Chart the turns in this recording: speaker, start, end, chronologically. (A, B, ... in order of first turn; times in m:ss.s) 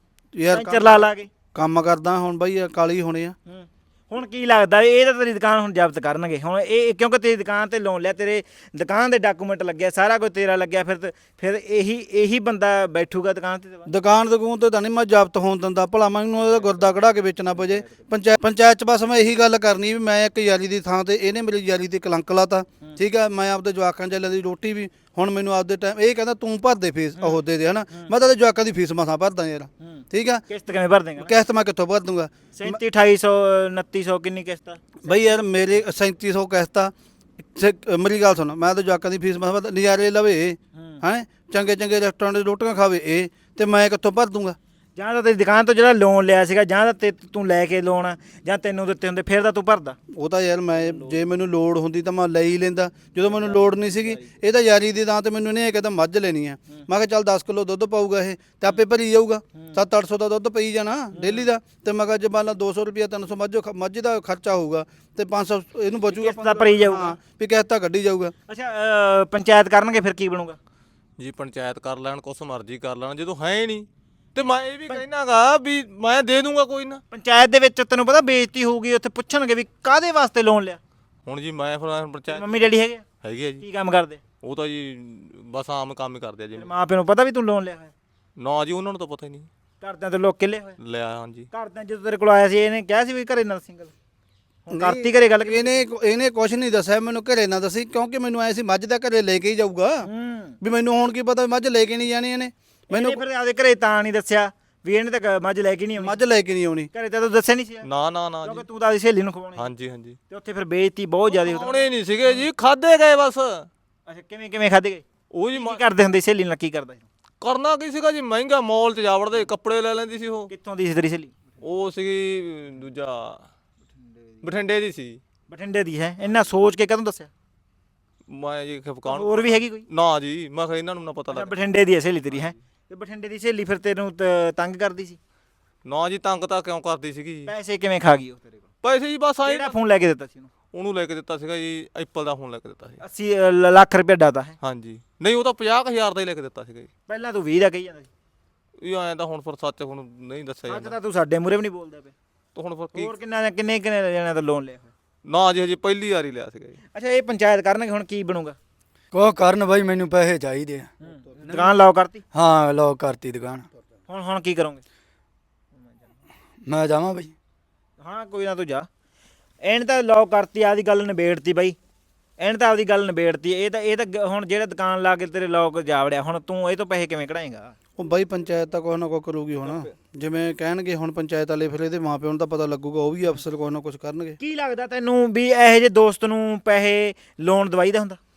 0:00.3-0:03.3 A
0:00.5-0:01.3 B
0:03.5-0:13.9 B
0:13.9-0:30.4 A
0:16.5-0:16.9 B
0:17.6-0:18.0 B
0:29.8-0:31.3 B
0:31.2-0:32.8 A
0:32.5-0:35.2 B
0:35.0-0:36.9 A
0:37.5-0:44.6 A
0:40.8-0:41.0 B
0:45.0-0:50.0 B
0:50.1-1:08.3 A
0:53.3-0:54.2 B
0:59.5-0:59.8 B
1:01.1-1:01.5 B
1:06.1-1:07.2 B
1:08.5-1:10.6 B
1:11.2-1:17.0 C
1:17.1-1:20.8 B
1:21.2-1:22.5 C
1:22.3-1:23.0 B
1:23.2-1:23.6 C
1:23.6-1:24.2 B
1:24.4-1:26.7 C
1:26.6-1:27.9 B
1:28.4-1:29.5 C
1:29.8-1:30.8 B
1:30.8-1:31.5 C
1:31.5-1:33.9 B
1:34.7-1:35.8 B
1:34.7-1:40.1 A
1:40.0-1:40.6 B
1:40.6-1:43.2 A
1:42.9-1:46.2 B
1:46.0-1:46.9 A
1:46.9-1:47.9 B
1:47.8-1:48.6 C
1:48.4-1:49.7 B
1:49.6-1:50.2 C
1:50.3-1:52.4 B
1:51.3-1:53.7 C
1:54.1-1:57.0 B
1:55.3-1:55.8 C
1:57.4-2:00.5 C
2:00.5-2:01.4 B
2:01.6-2:03.4 C
2:04.4-2:05.2 C
2:05.5-2:07.3 B
2:08.3-2:11.5 C
2:09.1-2:09.8 B
2:11.3-2:15.2 B
2:15.8-2:17.5 C
2:17.5-2:18.6 B
2:18.8-2:19.8 C
2:19.4-2:20.5 B
2:20.7-2:23.0 C
2:23.0-2:24.6 B
2:24.6-2:26.9 C
2:27.1-2:28.1 B
2:28.8-2:30.9 C
2:30.7-2:32.1 B
2:32.5-2:33.1 C
2:32.9-2:34.9 B
2:35.2-2:36.8 C
2:36.9-2:38.6 B
2:39.1-2:40.9 D
2:41.0-2:42.2 B
2:41.4-2:41.7 D
2:42.3-2:43.7 D
2:44.1-2:44.8 B
2:46.6-2:47.3 D
2:48.0-2:48.9 B
2:49.6-2:51.8 B
2:52.4-2:57.7 B
2:58.0-3:04.4 A
3:04.4-3:08.2 B